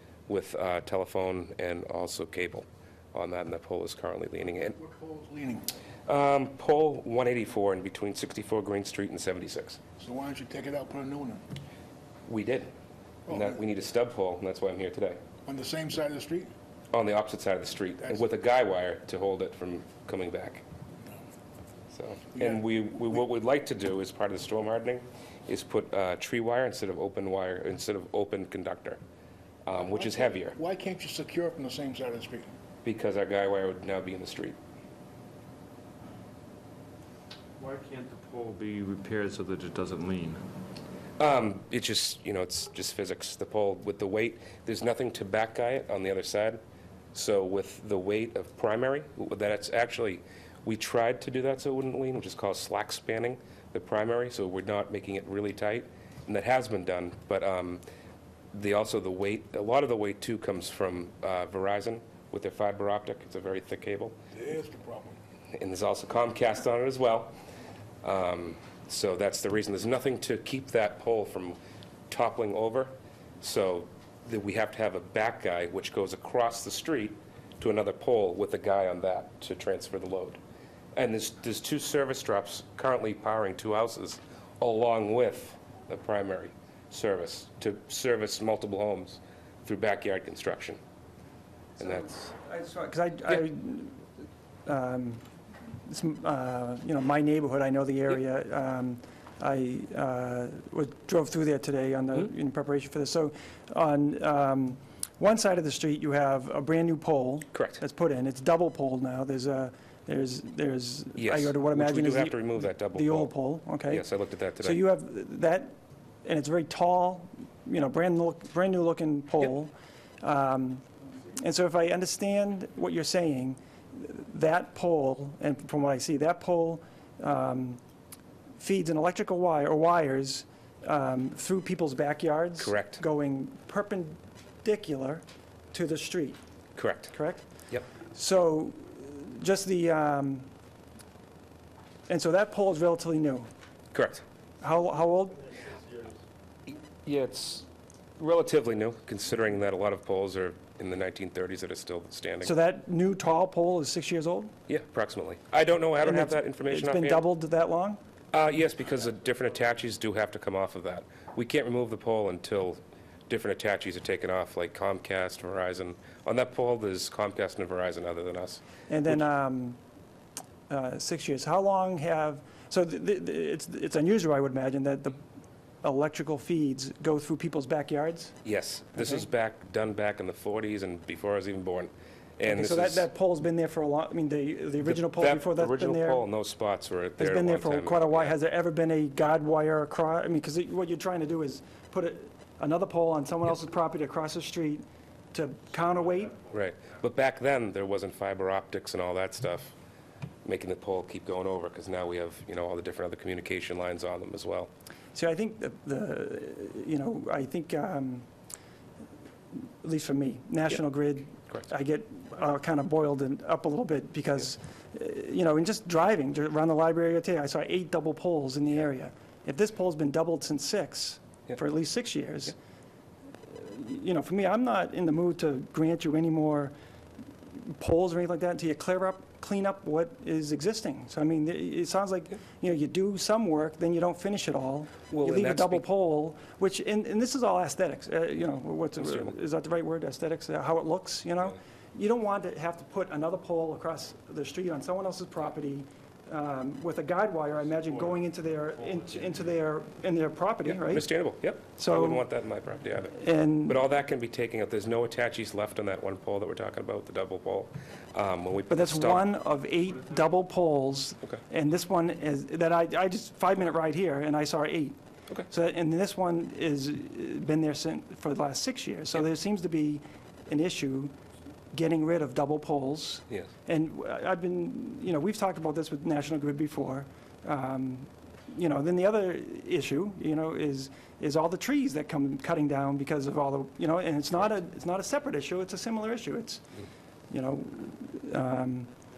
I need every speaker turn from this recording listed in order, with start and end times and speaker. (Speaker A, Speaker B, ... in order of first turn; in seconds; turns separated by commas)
Speaker A: 0.3-4.8, Speaker B: 4.7-5.7, Speaker A: 6.1-9.8, Speaker B: 10.0-11.4, Speaker A: 12.3-12.7, Speaker B: 13.3-13.6, Speaker A: 13.3-15.2, Speaker B: 15.5-16.5, Speaker A: 16.9-20.6, Speaker A: 21.9-29.0, Speaker A: 29.6-30.6, Speaker B: 30.0-32.5, Speaker A: 32.8-34.6, Speaker C: 37.6-40.4, Speaker A: 41.2-46.6, Speaker A: 47.1-57.8, Speaker A: 58.5-64.2, Speaker B: 64.3-65.2, Speaker A: 65.6-67.3, Speaker A: 68.0-71.6, Speaker A: 72.1-80.4, Speaker A: 81.0-90.8, Speaker D: 91.8-94.1, Speaker A: 91.8-92.1, Speaker D: 94.7-95.2, Speaker D: 95.9-114.0, Speaker A: 107.5-107.8, Speaker A: 111.2-113.3, Speaker A: 113.9-114.8, Speaker D: 114.6-115.7, Speaker D: 116.2-127.8, Speaker D: 128.6-136.4, Speaker A: 132.6-133.0, Speaker A: 136.8-137.1, Speaker D: 137.1-137.4, Speaker D: 138.0-140.5, Speaker D: 142.1-143.5, Speaker A: 143.9-144.2, Speaker D: 144.6-145.6, Speaker A: 147.1-147.7, Speaker A: 148.2-152.5, Speaker D: 152.4-154.5, Speaker A: 154.7-157.2, Speaker D: 156.0-158.0, Speaker A: 158.3-168.6, Speaker D: 168.9-169.8, Speaker D: 170.7-175.2, Speaker D: 175.8-178.3, Speaker A: 178.4-183.1, Speaker D: 182.5-186.2, Speaker A: 184.8-188.3, Speaker D: 187.2-196.4, Speaker A: 196.4-199.7, Speaker A: 200.4-204.7, Speaker D: 205.2-208.3, Speaker D: 209.8-222.6, Speaker D: 223.5-226.7, Speaker D: 227.6-252.3, Speaker A: 235.1-235.8, Speaker A: 250.7-259.3, Speaker D: 253.2-253.8, Speaker D: 258.7-265.0, Speaker D: 265.5-271.1, Speaker D: 271.7-286.6, Speaker D: 287.3-288.9